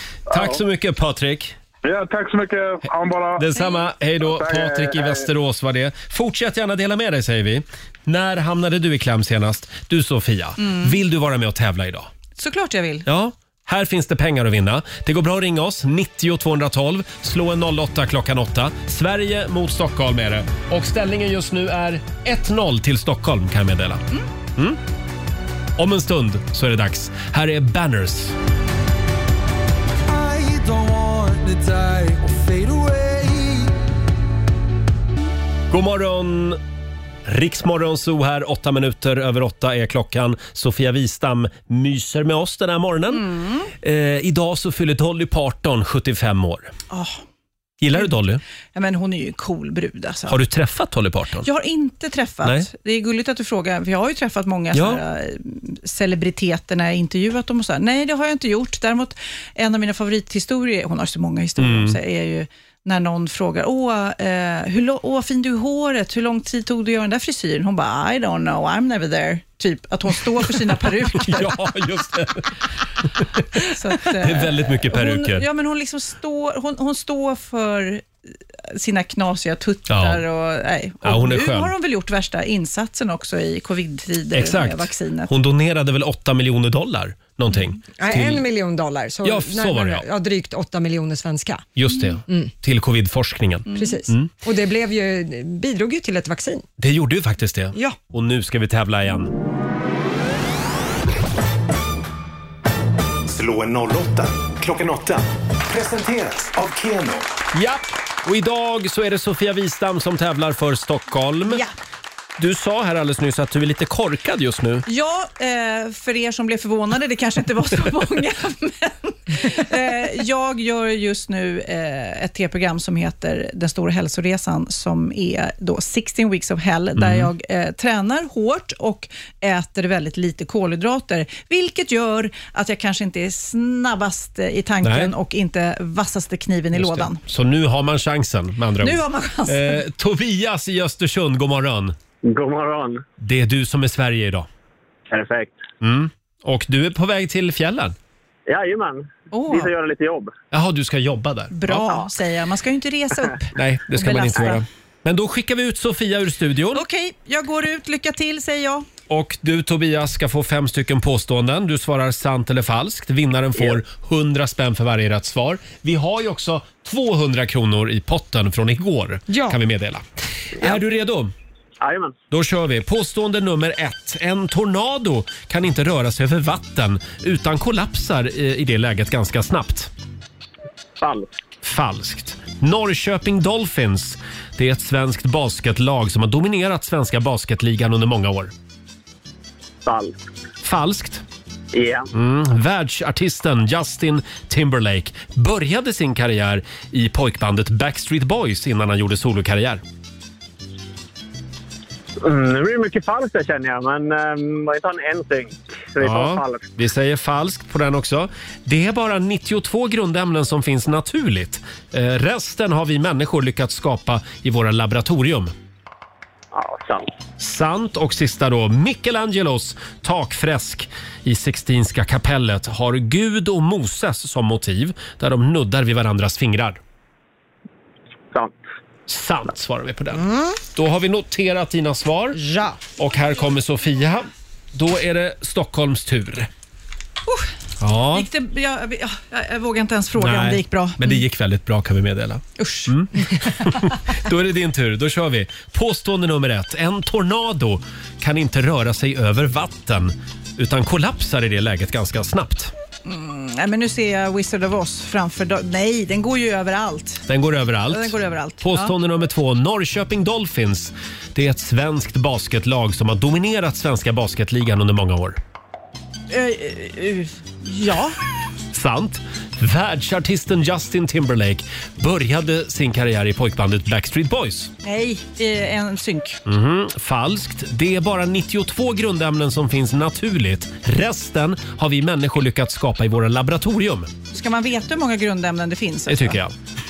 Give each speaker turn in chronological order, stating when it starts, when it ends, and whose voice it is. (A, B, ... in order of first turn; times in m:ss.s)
0:00.3-0:00.6 A
0:00.3-0:01.6 B
0:01.8-0:03.5 A
0:03.4-0:12.1 B
0:03.6-0:03.8 C
0:04.2-0:05.2 A
0:10.6-0:11.0 C
0:12.4-0:13.1 C
0:13.1-0:24.0 B
0:25.8-0:28.4 B
0:30.1-0:33.7 D
0:35.7-0:36.6 B
0:37.2-0:46.7 B
0:43.1-0:43.7 C
0:46.9-0:47.2 C
0:47.8-0:48.4 B
0:48.8-0:50.4 C
0:50.3-0:51.5 B
0:51.4-1:11.6 C
0:52.4-0:52.7 B
0:54.7-0:55.0 B
1:01.6-1:02.0 B
1:11.1-1:12.6 B
1:13.1-1:15.5 B
1:13.6-1:18.1 C
1:18.7-1:25.3 C
1:19.9-1:20.2 B
1:21.0-1:21.7 B
1:24.3-1:28.4 B
1:28.0-1:31.6 E
1:29.2-1:30.1 B
1:31.8-1:34.3 B
1:32.3-1:32.5 E
1:33.8-1:36.7 E
1:36.8-1:39.4 B
1:43.3-1:47.3 F
1:47.5-1:51.6 B
1:51.5-1:51.7 C
1:52.4-1:54.8 B
1:54.9-2:17.2 C
2:07.0-2:07.3 B
2:14.8-2:15.1 B
2:16.7-2:22.0 B
2:18.8-2:19.8 C
2:22.2-2:23.0 G
2:23.2-2:24.5 B
2:25.1-2:25.6 G
2:25.8-2:28.0 B
2:28.5-2:30.3 G
2:29.3-2:29.7 C
2:30.5-2:32.1 B
2:31.5-2:34.6 C
2:33.6-2:36.8 B
2:36.7-2:38.9 C
2:39.1-2:50.0 B
2:49.3-2:49.6 E
2:50.6-2:51.3 B
2:51.8-2:52.2 G
2:52.3-2:59.9 B
3:01.0-3:01.3 G
3:01.6-3:08.5 B
3:09.8-3:10.1 G
3:10.6-3:11.2 B
3:11.7-3:12.1 G
3:12.1-3:19.8 B
3:22.2-3:26.7 G
3:26.0-3:35.5 B
3:36.5-3:37.1 G
3:37.4-3:46.8 B
3:49.1-3:52.4 B
3:50.1-3:50.6 E
3:52.4-3:52.8 E
3:53.0-3:56.5 B
3:57.8-3:58.3 B
3:58.1-4:01.2 C
4:00.2-4:12.7 B
4:02.6-4:03.5 C
4:13.0-4:17.2 C
4:17.3-4:25.4 B
4:17.9-4:18.9 C
4:26.3-4:28.2 C
4:28.7-4:34.7 B
4:34.8-4:36.4 C
4:36.4-4:44.1 B
4:44.3-4:46.4 C
4:46.1-4:46.5 B